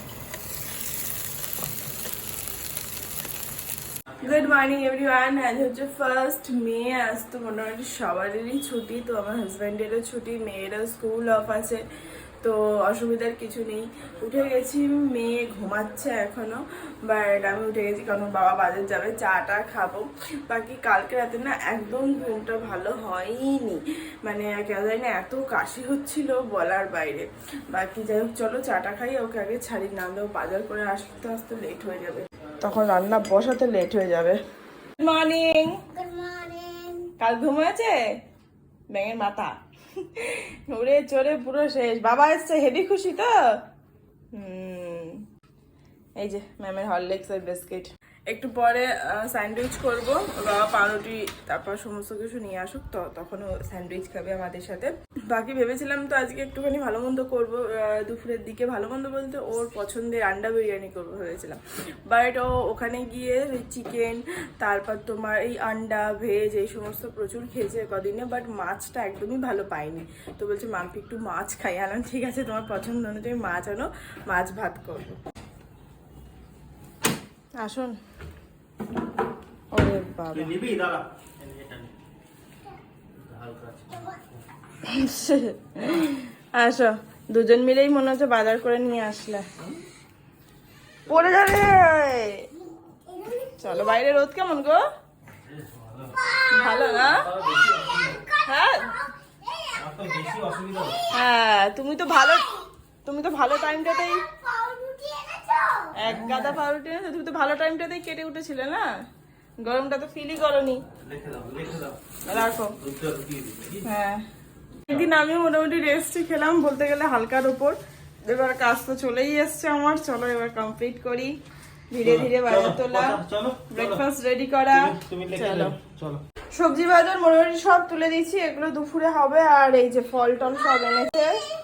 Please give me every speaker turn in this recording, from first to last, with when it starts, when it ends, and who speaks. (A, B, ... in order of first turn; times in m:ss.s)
0:04.2-0:11.8 A
0:12.4-0:34.4 A
0:35.0-0:35.8 A
0:35.9-0:37.1 B
0:37.2-0:38.0 A
0:38.9-0:43.4 A
0:44.3-0:45.2 A
0:46.2-1:15.2 A
1:17.6-1:18.0 A
1:19.7-1:20.6 A
1:20.3-1:21.9 C
1:23.1-1:24.4 C
1:24.8-1:29.7 A
1:31.1-1:32.5 A
1:32.8-1:34.0 B
1:33.6-1:34.8 A
1:35.4-1:36.2 C
1:36.2-1:39.8 B
1:36.5-1:37.3 A
1:37.1-1:38.2 C
1:38.4-1:39.0 A
1:39.8-1:41.0 C
1:41.1-1:42.5 A
1:43.0-1:44.3 A
1:43.7-1:45.9 B
1:46.0-1:48.9 A
1:49.6-1:50.9 A
1:51.0-1:53.9 C
1:52.3-1:52.8 A
1:53.8-1:54.3 A
1:54.9-2:01.3 A
2:01.9-2:05.8 A
2:02.0-2:04.0 C
2:04.7-2:06.2 C
2:06.5-2:11.4 A